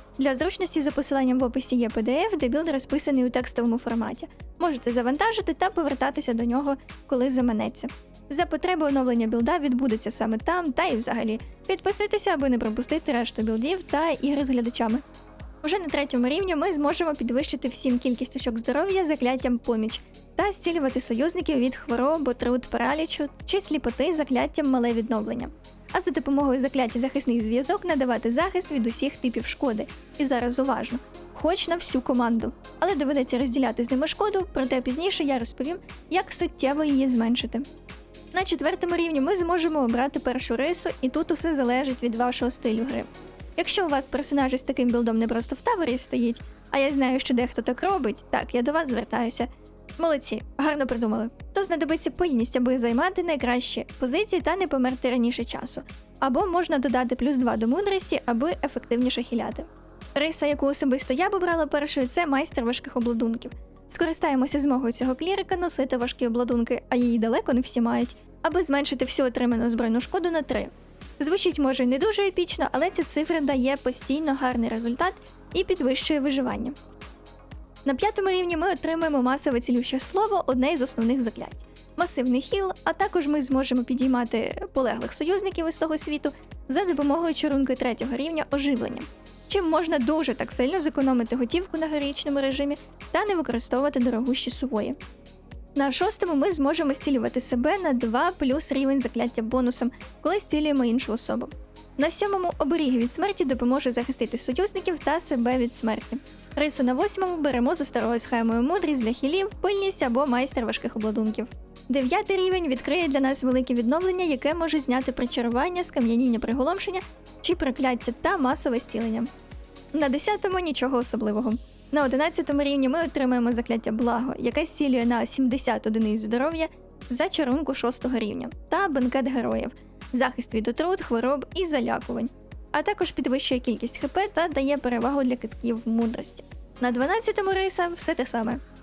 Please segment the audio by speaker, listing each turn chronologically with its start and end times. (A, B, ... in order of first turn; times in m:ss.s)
0:00.2-0:15.0 A
0:15.6-0:37.6 A
0:38.3-1:16.7 A
1:17.8-1:35.0 A
1:35.8-1:59.3 A
1:59.9-2:18.6 A